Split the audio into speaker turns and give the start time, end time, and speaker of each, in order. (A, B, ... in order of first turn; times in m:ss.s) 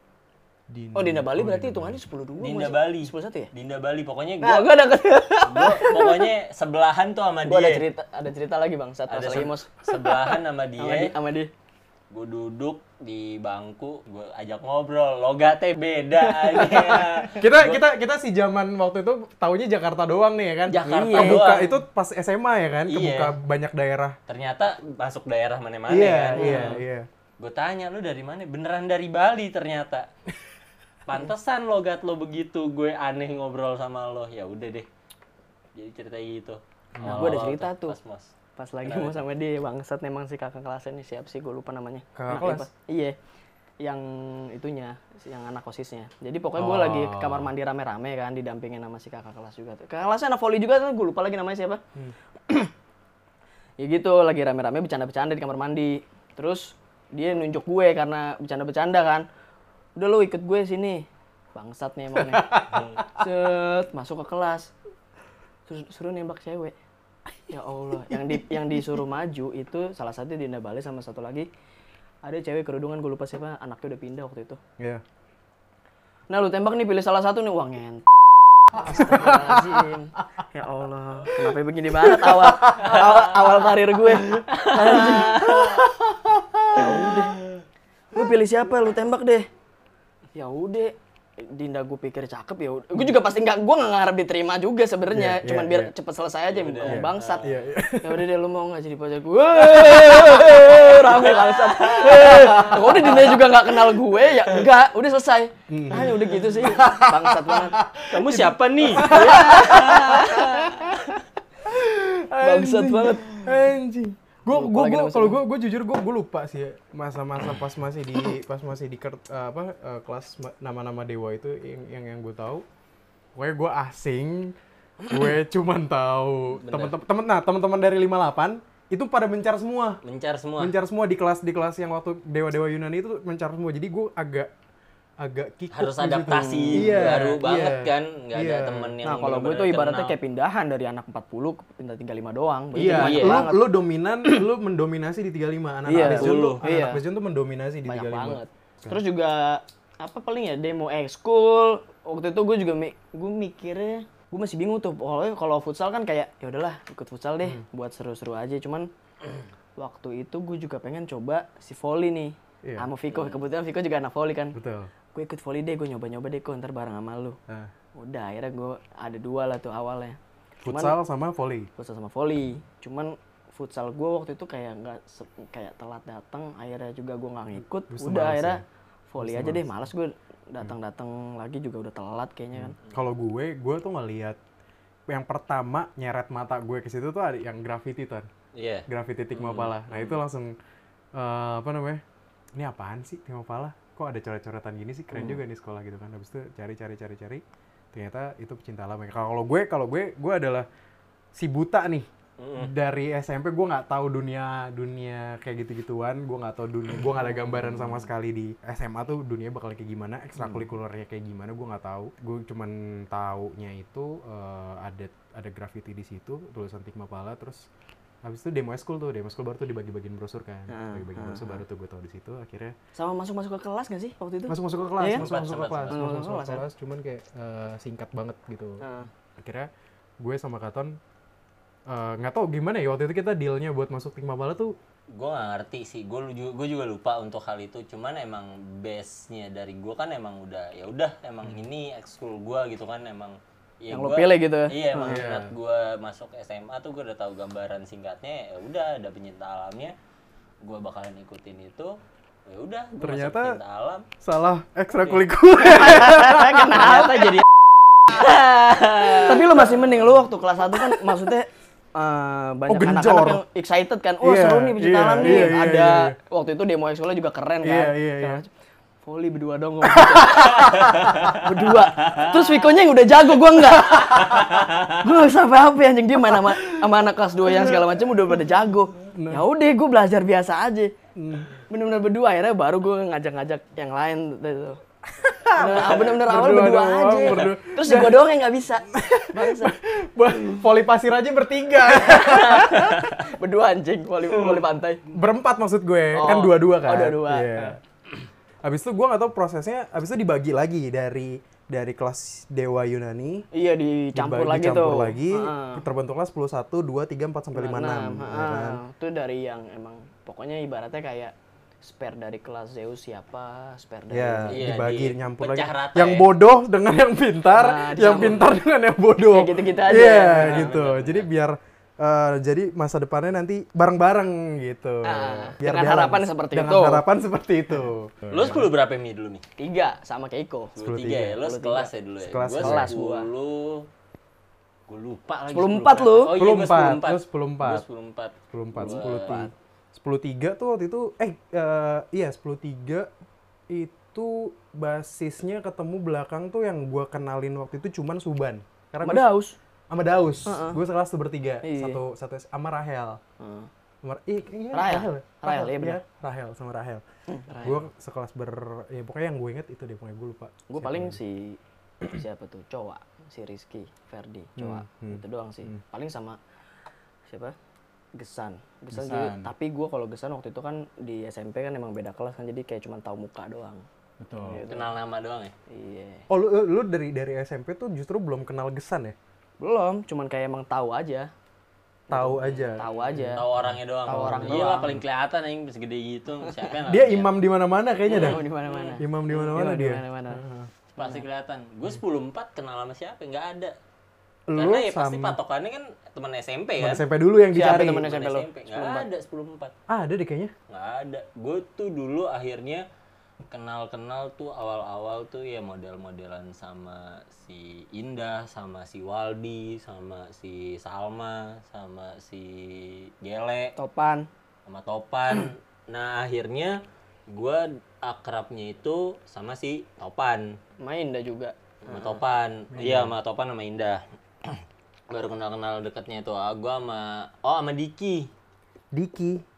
0:00.7-0:02.0 A
0:00.9-0:03.5 B
0:02.4-0:04.7 C
0:04.4-0:06.3 B
0:05.4-0:07.8 C
0:07.4-0:11.5 B
0:09.1-0:11.1 C
0:12.1-0:17.8 C
0:16.4-0:17.0 B
0:17.3-0:24.2 A
0:20.7-0:21.8 C
0:20.8-0:21.5 B
0:22.9-0:23.3 C
0:24.3-0:26.8 C
0:25.9-0:27.1 A
0:26.3-0:26.8 B
0:27.4-0:30.1 C
0:31.0-0:34.9 C
0:35.7-0:38.3 C
0:36.9-0:37.4 A
0:37.0-0:38.0 B
0:38.6-0:43.1 B
0:38.8-0:39.2 C
0:42.1-0:42.7 A
0:43.8-0:51.8 B
0:46.6-0:47.5 A
0:53.8-0:59.2 B
1:00.0-1:04.7 B
1:02.3-1:03.2 A
1:02.7-1:03.0 C
1:05.7-1:06.7 B
1:07.5-1:11.5 B
1:12.2-1:14.6 B
1:16.3-1:18.0 B
1:18.7-1:25.8 B
1:18.8-1:19.6 A
1:21.4-1:22.9 A
1:25.0-1:26.9 A
1:26.7-1:27.3 B
1:28.1-1:29.5 B
1:30.3-1:37.4 B
1:35.1-1:35.9 A
1:36.5-1:37.5 C
1:36.8-1:38.3 A
1:38.0-1:47.8 B
1:39.6-1:43.6 C
1:45.7-1:50.9 A
1:48.1-1:50.7 C
1:49.0-1:51.0 B
1:51.6-2:02.6 A
1:52.4-1:53.5 B
1:54.5-1:55.4 B
2:03.3-2:10.0 A
2:06.6-2:07.0 C
2:10.0-2:10.7 C
2:10.6-2:14.5 A
2:15.2-2:18.9 A
2:15.7-2:20.1 C
2:16.5-2:17.2 B
2:19.0-2:23.7 B
2:22.7-2:29.0 A
2:22.8-2:23.5 C
2:25.8-2:27.0 B
2:25.9-2:26.6 C
2:27.8-2:38.9 B
2:39.8-2:44.6 B
2:42.6-2:42.9 A
2:43.1-2:43.4 C
2:44.5-2:44.9 A
2:45.1-2:47.4 B
2:48.0-2:51.0 B
2:50.6-2:51.7 A
2:51.8-3:02.8 B
2:57.9-2:58.6 A
2:59.2-2:59.9 A
3:02.5-3:04.4 A
3:05.1-3:08.3 A
3:08.5-3:10.2 C
3:08.9-3:10.5 A
3:11.1-3:12.0 A
3:12.5-3:20.7 A
3:21.3-3:37.7 A
3:22.4-3:22.7 C
3:38.2-3:42.7 A
3:40.7-3:41.6 B
3:42.9-3:45.2 B
3:44.5-3:48.8 A
3:45.0-3:46.0 C
3:45.9-3:46.6 B
3:48.8-3:49.1 B
3:49.4-3:49.7 A
3:50.2-3:51.0 A
3:51.9-3:54.7 A
3:55.1-4:09.9 C
4:03.9-4:05.2 B
4:05.0-4:05.5 A
4:10.6-4:12.0 C
4:12.5-4:14.0 C
4:13.0-4:13.6 A
4:14.2-4:16.9 A
4:15.0-4:15.3 C
4:15.7-4:17.4 B
4:16.8-4:17.4 C
4:18.1-4:19.6 C
4:18.7-4:28.5 B
4:22.7-4:23.4 A
4:24.2-4:26.2 A
4:27.6-4:28.4 A
4:29.0-4:40.9 B
4:29.8-4:30.5 A
4:30.6-4:32.5 C
4:34.2-4:34.8 C
4:37.5-4:37.8 A
4:39.1-4:39.4 A
4:41.2-4:41.5 A
4:41.7-4:44.8 B
4:45.2-4:48.2 A
4:45.5-4:49.7 B
4:48.9-4:53.0 A
4:51.9-4:55.0 B
4:55.1-4:57.8 A
4:56.1-4:57.8 B
4:58.6-5:03.4 A
5:03.5-5:05.8 B
5:04.1-5:08.8 A
5:07.5-5:14.6 B
5:14.1-5:28.7 A
5:14.5-5:16.3 C
5:17.5-5:18.5 B
5:19.2-5:20.7 B
5:20.2-5:21.3 C
5:25.0-5:27.0 B
5:28.3-5:29.4 C
5:29.6-5:30.7 B
5:30.8-5:33.9 C
5:30.8-5:31.4 A
5:31.4-5:31.9 B
5:32.2-5:33.0 A
5:32.6-5:33.3 B
5:34.9-5:39.5 C
5:35.5-5:36.3 B
5:36.3-5:37.8 A
5:38.5-5:43.1 A
5:43.7-5:49.3 A
5:49.0-5:49.5 B
5:49.9-5:53.2 A
5:50.4-5:50.8 B
5:51.6-5:52.0 B
5:53.4-5:53.7 B
5:54.0-5:57.0 A
5:54.7-5:56.0 B
5:57.3-5:57.8 B
5:57.5-6:01.2 A
6:00.7-6:06.4 B
6:04.6-6:05.8 A
6:07.3-6:07.5 B
6:08.2-6:13.8 B
6:08.9-6:09.5 A
6:14.2-6:14.6 A
6:14.4-6:14.9 B
6:14.6-6:15.5 C
6:15.7-6:16.2 B
6:16.3-6:19.1 A
6:19.6-6:21.3 B
6:22.1-6:23.5 B
6:22.1-6:24.9 A
6:22.8-6:27.3 C
6:24.0-6:25.0 B
6:26.9-6:28.4 A
6:28.1-6:29.0 C
6:28.1-6:30.4 B
6:29.0-6:30.7 A
6:30.9-6:33.8 C
6:31.0-6:31.2 B
6:34.5-6:35.4 A
6:34.5-6:37.0 C
6:36.8-6:38.0 A
6:37.5-6:39.1 B
6:37.6-6:39.7 C
6:39.9-6:40.5 A
6:40.7-6:42.8 C
6:43.5-6:53.7 C
6:53.8-6:54.3 B
6:54.7-6:56.8 C
6:57.3-7:00.4 C
7:00.8-7:02.1 B
7:01.9-7:08.3 C
7:02.7-7:03.1 A
7:08.9-7:09.4 A